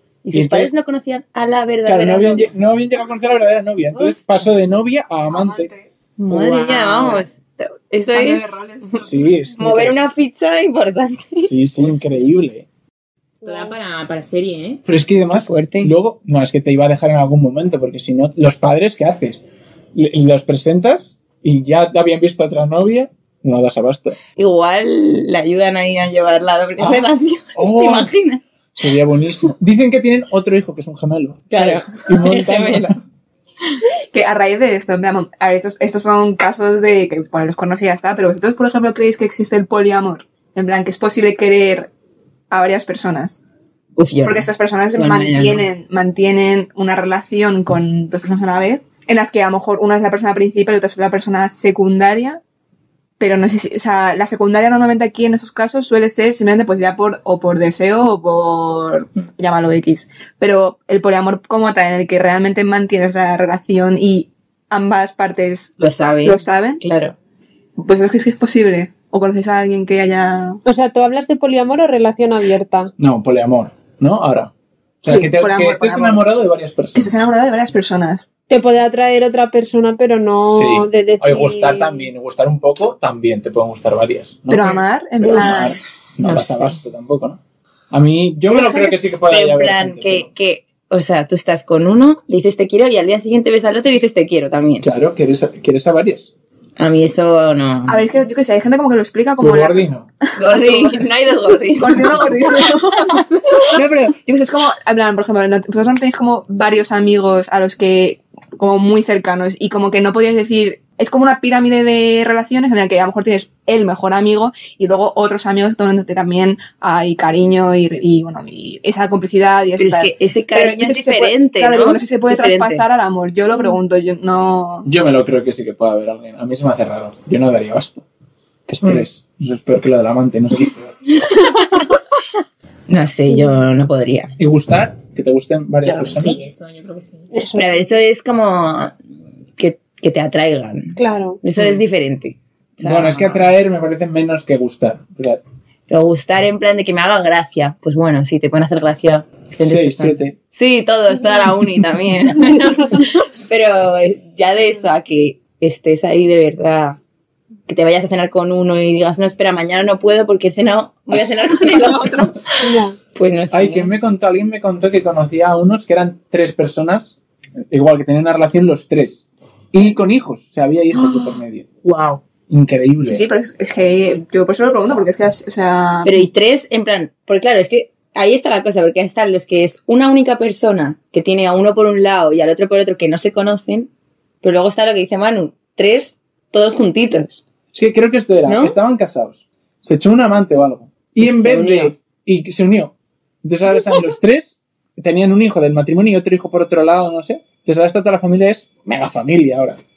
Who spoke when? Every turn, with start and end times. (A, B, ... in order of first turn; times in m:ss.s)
0:00.2-0:02.5 A
0:00.3-0:00.7 B
0:01.8-0:05.7 B
0:05.3-0:05.9 C
0:06.2-0:08.6 A
0:06.3-0:07.2 D
0:08.1-0:09.3 C
0:09.0-0:10.1 B
0:09.5-0:11.5 A
0:11.4-0:12.7 B
0:13.4-0:14.8 D
0:13.4-0:13.7 E
0:14.8-0:19.4 B
0:15.3-0:15.9 A
0:19.9-0:24.2 B
0:24.4-0:28.5 A
0:26.8-0:28.1 B
0:28.7-0:33.0 B
0:31.5-0:33.0 A
0:34.1-0:41.9 C
0:42.5-0:43.4 C
0:44.0-0:45.6 A
0:44.2-0:52.4 C
0:53.2-1:06.8 C
1:05.8-1:07.2 A
1:07.8-1:10.6 C
1:10.6-1:12.9 E
1:13.0-1:17.2 B
1:15.0-1:16.2 C
1:16.9-1:18.3 C
1:18.5-1:22.1 E
1:20.5-1:27.4 B
1:24.5-1:25.8 C
1:25.2-1:26.8 A
1:27.9-1:30.3 B
1:28.4-1:29.0 C
1:29.3-1:34.9 A
1:34.8-1:36.3 B
1:36.8-1:38.0 A
1:37.9-1:39.9 C
1:39.4-1:40.1 B
1:40.4-1:43.8 A
1:40.4-1:41.0 C
1:41.8-2:04.9 C
1:59.8-2:02.8 A
2:04.8-2:08.0 B
2:08.7-2:11.0 B
2:12.9-2:14.4 A
2:14.4-2:16.4 B
2:15.9-2:17.3 D
2:17.3-2:17.8 E
2:17.5-2:18.9 A
2:19.6-2:23.4 A
2:21.0-2:21.4 E
2:22.8-2:25.4 B
2:25.9-2:37.0 A
2:29.6-2:30.4 B
2:32.8-2:33.0 E
2:37.7-2:42.4 A
2:41.6-2:42.4 C
2:42.6-2:43.0 E
2:43.1-2:43.9 A
2:43.5-2:47.2 B
2:47.7-2:51.7 B
2:51.8-2:52.2 D
2:52.5-2:53.2 B
2:53.0-2:56.3 C
2:56.0-3:03.9 A
3:04.4-3:07.4 A
3:07.7-3:19.8 B
3:08.4-3:08.8 A
3:11.2-3:11.9 A